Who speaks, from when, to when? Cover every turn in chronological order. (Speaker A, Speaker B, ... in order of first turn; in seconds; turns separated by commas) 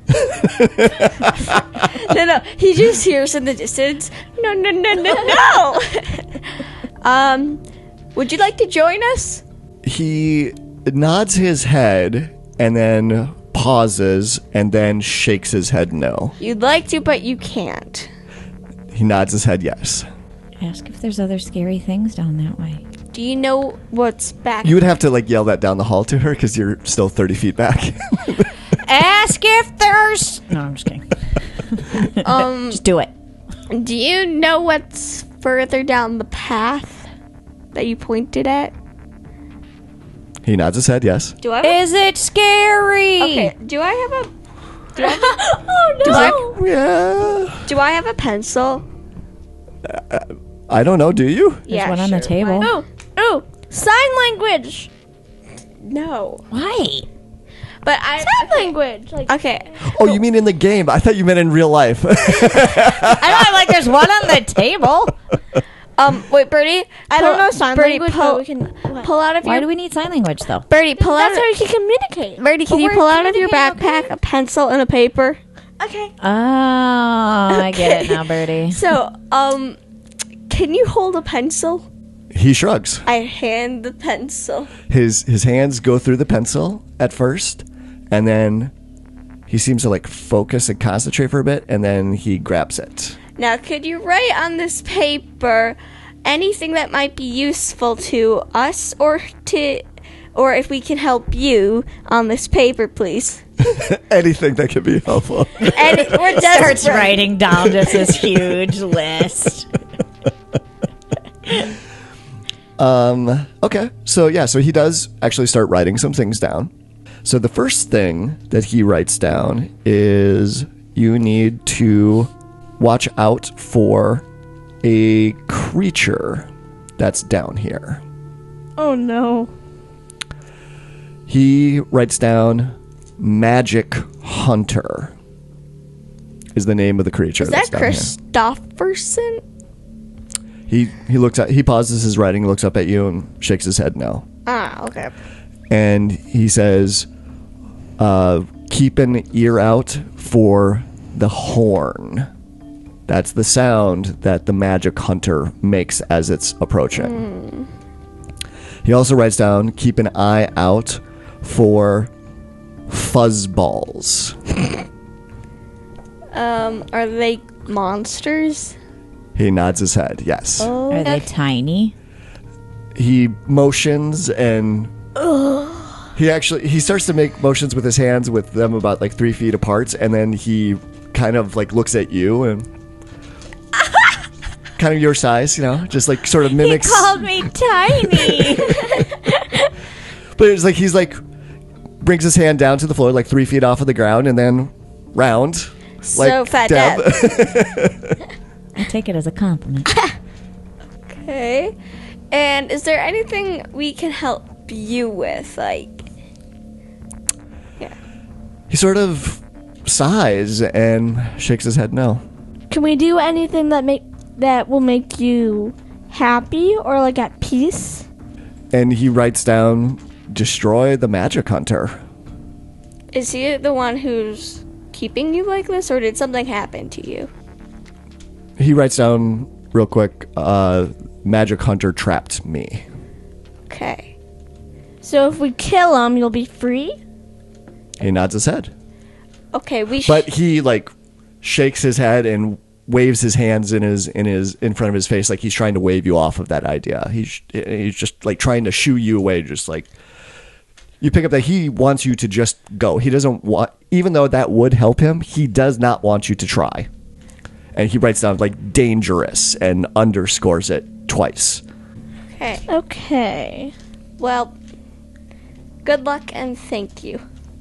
Speaker A: 0.1-1.6, Speaker B: 1.8-6.4, Speaker B: 7.0-7.6, Speaker B: 8.1-9.4, Speaker A: 9.8-16.3, Speaker B: 16.4-18.1, Speaker A: 18.9-20.1, Speaker C: 20.6-22.8, Speaker B: 23.1-24.8, Speaker A: 24.6-28.5, Speaker C: 28.8-31.1, Speaker C: 31.7-33.1, Speaker B: 32.2-32.8, Speaker B: 33.7-37.1, Speaker B: 37.7-38.7, Speaker A: 40.4-41.4, Speaker B: 41.4-41.8, Speaker C: 41.6-43.5, Speaker B: 43.2-44.3, Speaker D: 45.0-46.6, Speaker B: 45.0-45.4, Speaker B: 46.0-46.4, Speaker A: 46.0-47.6, Speaker B: 47.6-48.9, Speaker A: 49.8-51.7, Speaker B: 51.7-52.8, Speaker C: 51.7-52.7, Speaker D: 52.6-54.9, Speaker B: 55.8-56.5, Speaker C: 56.5-57.1, Speaker B: 57.8-58.7, Speaker D: 58.2-59.3, Speaker B: 59.3-60.2, Speaker A: 59.8-63.9, Speaker C: 63.0-65.2, Speaker B: 66.0-69.7, Speaker D: 67.1-69.1, Speaker C: 69.4-70.7, Speaker B: 70.7-71.5, Speaker D: 71.0-74.1, Speaker B: 72.4-75.4, Speaker D: 75.8-76.1, Speaker C: 76.2-78.8, Speaker B: 77.5-79.8, Speaker B: 80.5-81.9, Speaker A: 82.3-83.1, Speaker B: 83.0-84.7, Speaker A: 84.9-88.7, Speaker A: 89.5-93.2, Speaker B: 93.4-99.8, Speaker B: 100.3-103.4, Speaker A: 103.7-106.8, Speaker B: 105.6-108.1, Speaker C: 106.3-109.7, Speaker A: 112.8-116.7, Speaker A: 117.2-124.2, Speaker A: 124.8-128.0, Speaker D: 128.8-129.5, Speaker A: 131.3-135.1, Speaker A: 136.5-138.1, Speaker B: 137.4-139.4, Speaker A: 140.7-144.2, Speaker B: 144.4-145.1, Speaker A: 145.7-147.1, Speaker A: 148.0-152.3, Speaker A: 153.1-157.2, Speaker B: 156.9-157.7, Speaker A: 158.8-162.1, Speaker A: 162.9-164.6, Speaker B: 166.3-168.7, Speaker A: 169.3-170.7, Speaker D: 170.6-171.2, Speaker C: 170.9-171.9, Speaker A: 172.9-174.9, Speaker D: 175.3-175.9, Speaker A: 176.2-182.7, Speaker A: 184.8-187.5, Speaker C: 186.6-188.9, Speaker A: 190.3-191.2, Speaker A: 192.0-198.2, Speaker B: 196.0-197.6, Speaker C: 198.8-200.0, Speaker B: 201.1-201.7, Speaker B: 202.3-206.1, Speaker A: 208.7-212.2, Speaker D: 212.7-218.1, Speaker A: 218.7-222.0, Speaker B: 223.1-227.3, Speaker A: 228.6-232.8, Speaker B: 233.7-234.1, Speaker D: 235.0-237.0, Speaker A: 238.0-238.7, Speaker B: 239.5-240.3, Speaker A: 240.0-249.9, Speaker A: 251.0-256.9, Speaker A: 257.7-261.6, Speaker B: 262.3-262.6, Speaker D: 262.7-263.7, Speaker B: 264.2-264.5, Speaker B: 265.8-267.2